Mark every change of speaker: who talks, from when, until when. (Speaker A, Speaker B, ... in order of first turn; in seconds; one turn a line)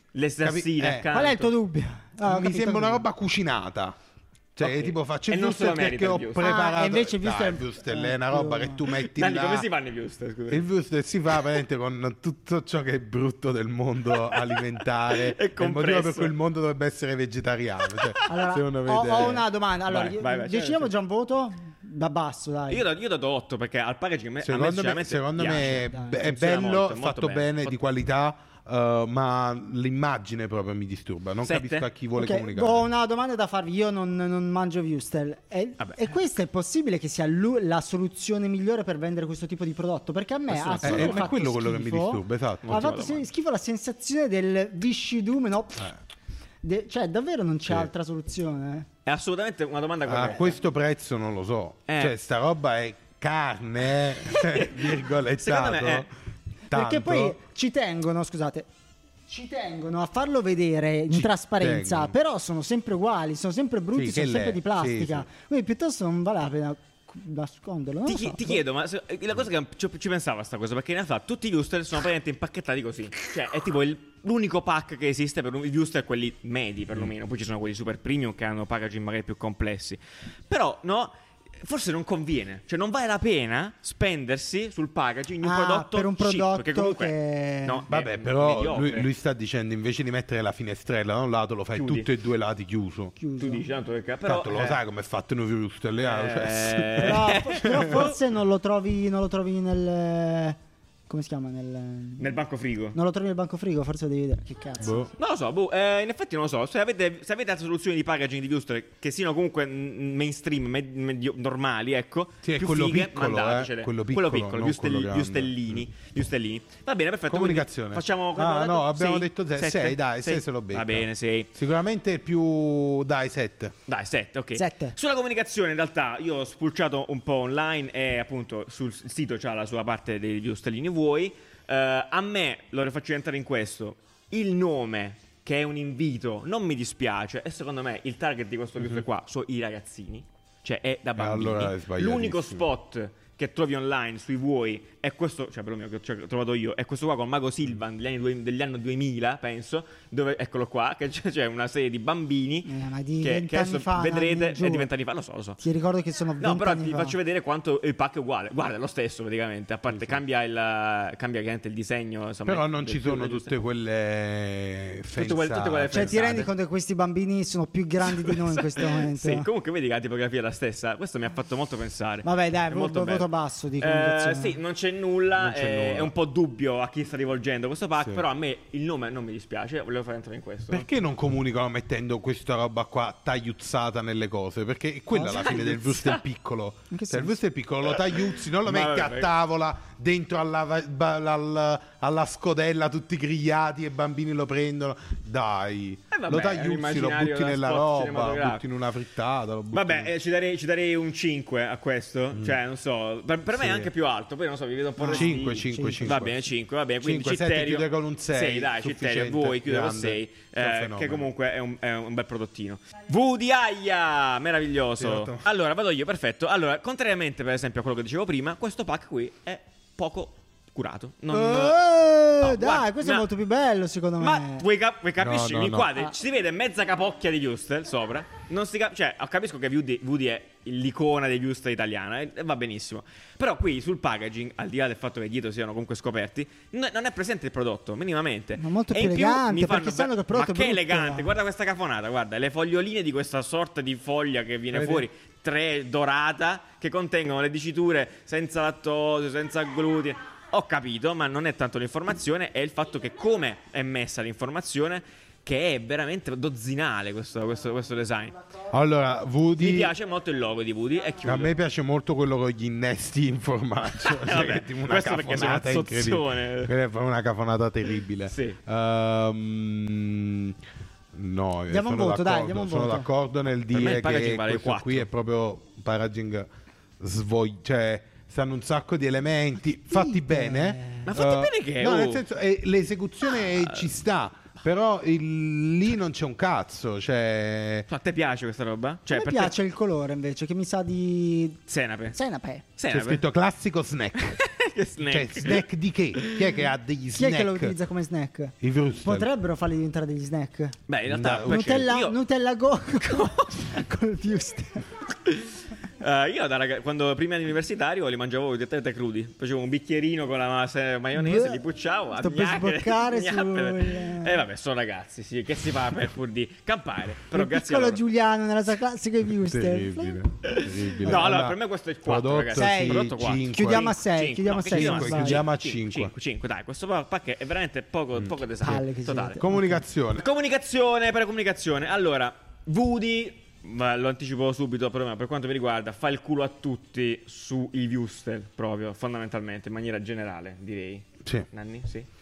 Speaker A: 0.1-1.5
Speaker B: 0.4-1.1
Speaker C: 1.1-3.0
Speaker B: 2.2-4.0
Speaker B: 4.5-9.7
Speaker A: 4.6-6.5
Speaker C: 6.4-8.8
Speaker A: 8.9-10.6
Speaker B: 10.5-19.4
Speaker A: 14.1-16.3
Speaker A: 17.9-18.3
Speaker C: 18.3-22.8
Speaker A: 19.9-20.9
Speaker A: 22.7-27.8
Speaker B: 24.4-32.9
Speaker C: 25.6-26.2
Speaker A: 31.4-31.9
Speaker C: 32.2-45.9
Speaker A: 35.8-36.1
Speaker B: 40.5-43.0
Speaker A: 40.7-41.1
Speaker A: 42.6-43.3
Speaker C: 46.6-48.9
Speaker A: 49.0-50.6
Speaker B: 50.0-56.1
Speaker A: 51.9-52.1
Speaker A: 53.9-56.1
Speaker B: 56.7-57.4
Speaker C: 56.7-58.7
Speaker C: 59.3-68.6
Speaker B: 61.1-62.1
Speaker B: 63.9-65.3
Speaker A: 68.0-89.1
Speaker C: 85.4-87.8
Speaker B: 87.9-93.1
Speaker A: 91.7-92.1
Speaker C: 93.2-93.7
Speaker A: 93.4-94.8
Speaker B: 94.2-98.0
Speaker A: 96.0-98.2
Speaker C: 97.0-100.6
Speaker C: 101.1-102.4
Speaker A: 102.2-103.0
Speaker C: 102.9-105.1
Speaker B: 104.8-105.1
Speaker A: 105.2-121.5
Speaker B: 112.4-115.8
Speaker B: 117.3-123.7
Speaker A: 123.8-155.6
Speaker C: 124.5-125.0
Speaker B: 141.2-142.7
Speaker C: 152.6-154.9
Speaker C: 155.6-157.2
Speaker A: 156.4-163.5
Speaker B: 159.9-160.2
Speaker B: 162.4-166.2
Speaker A: 165.1-166.5
Speaker C: 165.9-169.5
Speaker A: 168.0-180.9
Speaker C: 172.2-174.6
Speaker B: 175.3-176.1
Speaker B: 180.7-200.1
Speaker C: 185.1-185.7
Speaker A: 185.3-186.2
Speaker C: 186.9-187.4
Speaker A: 187.8-189.3
Speaker A: 196.1-198.7
Speaker A: 199.7-221.8
Speaker B: 202.3-202.6
Speaker B: 203.5-203.9
Speaker C: 205.0-206.2
Speaker B: 205.1-206.5
Speaker B: 207.0-211.3
Speaker B: 215.0-215.4
Speaker C: 221.3-224.6
Speaker A: 222.4-223.3
Speaker A: 224.2-258.4
Speaker B: 225.2-225.9
Speaker C: 238.6-241.3
Speaker B: 258.7-259.9
Speaker A: 259.6-261.6
Speaker B: 261.2-270.5
Speaker A: 263.9-266.7
Speaker A: 268.3-268.6
Speaker B: 271.1-276.5
Speaker C: 271.7-273.1
Speaker A: 273.7-275.1
Speaker B: 277.0-287.9
Speaker C: 279.8-281.1
Speaker A: 281.1-282.2
Speaker A: 283.2-283.9
Speaker A: 287.9-289.5
Speaker C: 289.1-291.6
Speaker A: 291.7-292.2
Speaker C: 292.1-292.7
Speaker A: 292.8-293.2
Speaker B: 292.9-294.4
Speaker A: 294.2-296.4
Speaker B: 295.1-297.7
Speaker C: 297.1-300.8
Speaker B: 298.6-299.3
Speaker A: 300.9-302.1
Speaker B: 301.1-301.9
Speaker C: 301.4-304.8
Speaker A: 303.0-303.7
Speaker A: 305.2-318.0
Speaker C: 311.1-311.6
Speaker C: 312.1-314.4
Speaker C: 317.3-321.3
Speaker B: 319.4-324.0
Speaker A: 320.4-329.4
Speaker C: 322.5-325.4
Speaker B: 324.7-326.1
Speaker C: 328.6-329.8
Speaker B: 329.4-330.2
Speaker A: 330.1-342.1